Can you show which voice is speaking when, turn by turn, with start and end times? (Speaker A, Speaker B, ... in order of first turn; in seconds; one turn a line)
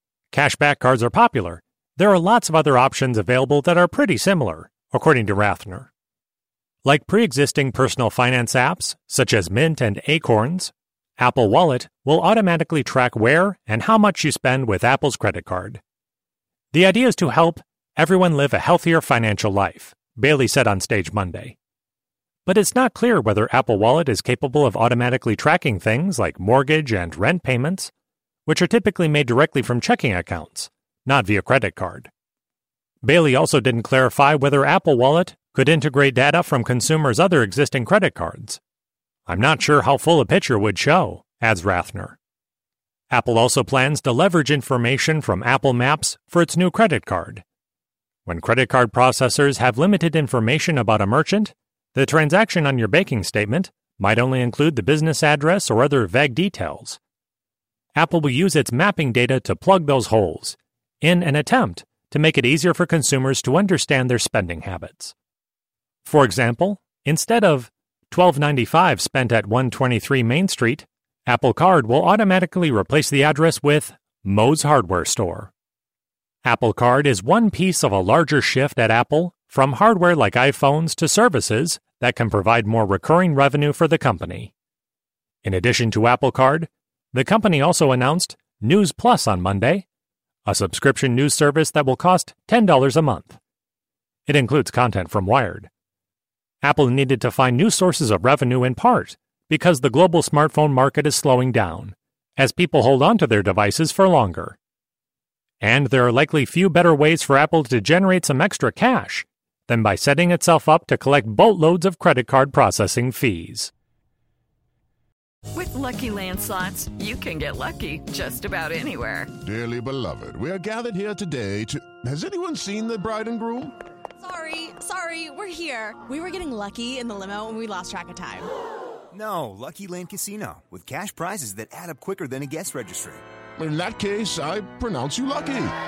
Speaker A: 0.3-5.9
Speaker A: 6.8-15.8
Speaker A: 16.7-21.5
Speaker A: 22.4-27.9
Speaker A: 28.4-32.1
Speaker A: 33.0-38.6
Speaker A: 39.3-42.2
Speaker A: 43.1-47.4
Speaker A: 48.2-57.0
Speaker A: 58.0-65.1
Speaker A: 66.0-75.5
Speaker A: 76.4-84.5
Speaker A: 85.4-89.8
Speaker A: 90.5-93.4
Speaker A: 94.3-95.7
Speaker A: 96.6-104.6
Speaker A: 105.6-113.7
Speaker B: 115.5-119.3
Speaker C: 119.4-123.7
Speaker D: 124.2-128.5
Speaker E: 129.1-133.2
Speaker C: 133.6-135.7